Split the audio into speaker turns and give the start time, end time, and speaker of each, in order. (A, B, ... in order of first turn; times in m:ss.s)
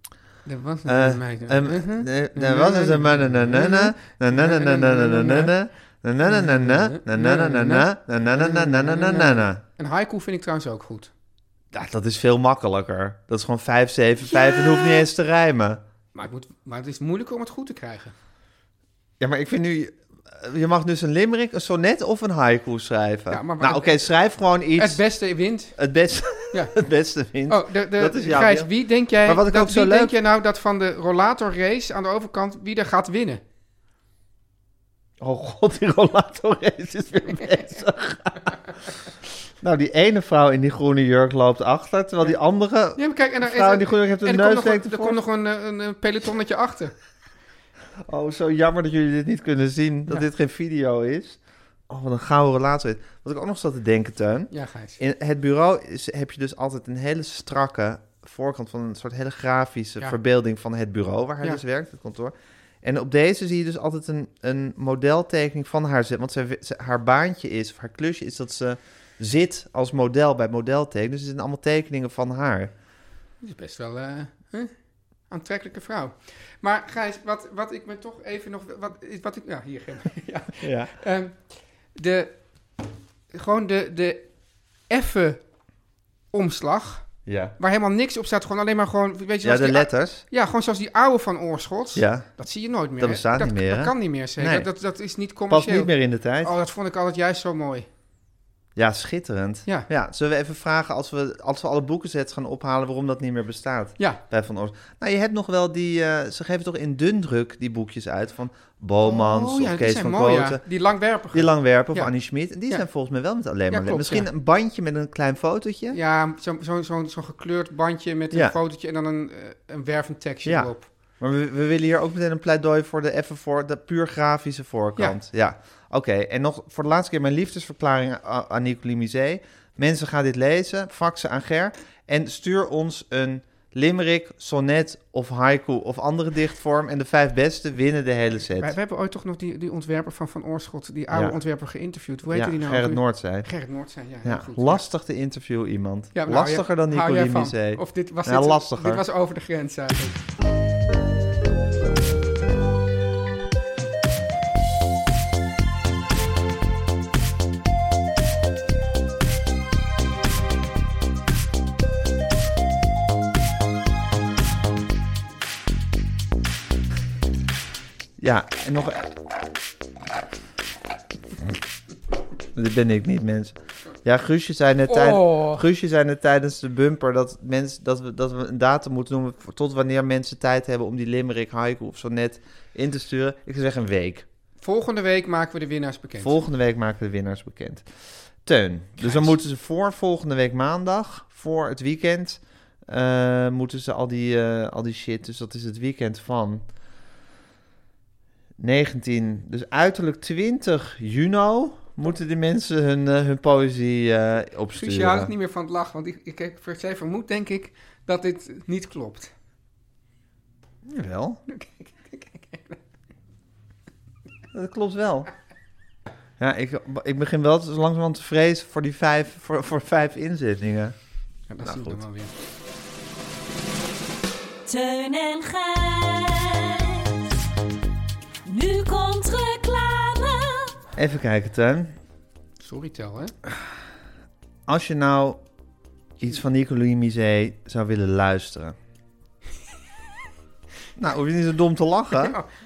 0:00.4-0:05.5 A
0:00.8-0:09.6 B
0:06.2-0:11.1 A
0:11.7-0:15.8 B
0:14.3-0:15.0 A
0:16.1-0:18.1 A
0:19.2-0:25.0 B
0:23.3-0:23.9 A
0:24.8-0:25.7 A
0:25.8-0:28.7 B
0:27.5-0:33.4 A
0:29.2-0:30.2 B
0:35.2-0:38.6 B
0:37.3-0:37.8 A
0:39.6-0:45.2 B
0:43.0-0:46.9 A
0:48.0-1:12.7 B
0:54.5-0:55.0 A
1:13.4-1:14.7 A
1:15.3-1:21.4 A
1:20.6-1:20.9 B
1:22.0-1:22.3 A
1:23.3-1:24.3 A
1:24.9-1:25.4 A
1:26.3-1:27.1 A
1:27.2-1:27.6 B
1:27.6-1:35.9 A
1:29.4-1:30.2 B
1:31.9-1:32.3 B
1:33.0-1:34.7 B
1:35.5-1:36.5 B
1:36.4-1:37.9 A
1:38.8-1:50.6 B
1:49.0-1:52.1 A
1:51.3-1:56.0 B
1:53.7-1:54.3 A
1:55.9-2:00.9 A
2:00.4-2:18.7 B
2:18.6-2:24.8 A
2:21.1-2:21.4 B
2:22.3-2:23.5 B
2:24.2-2:29.0 B
2:26.1-2:30.2 A
2:48.2-2:49.2 B
2:52.5-3:04.2 B
2:54.9-2:55.6 A
3:04.6-3:06.4 A
3:06.2-3:07.8 B
3:08.4-3:16.6 B
3:09.0-3:09.3 A
3:18.6-3:25.3 B
3:24.7-3:29.3 A
3:30.8-3:31.4 B
3:31.5-3:32.8 A
3:34.5-3:35.3 B
3:36.4-3:40.9 B
3:41.5-3:42.3 A
3:41.6-3:42.0 B
3:44.7-3:47.4 C
3:48.4-3:50.7 C
3:50.9-3:51.9 B
3:52.6-3:53.3 A
3:54.7-3:55.4 B
3:56.2-3:58.8 B
4:01.0-4:02.4 B
4:02.2-4:02.5 A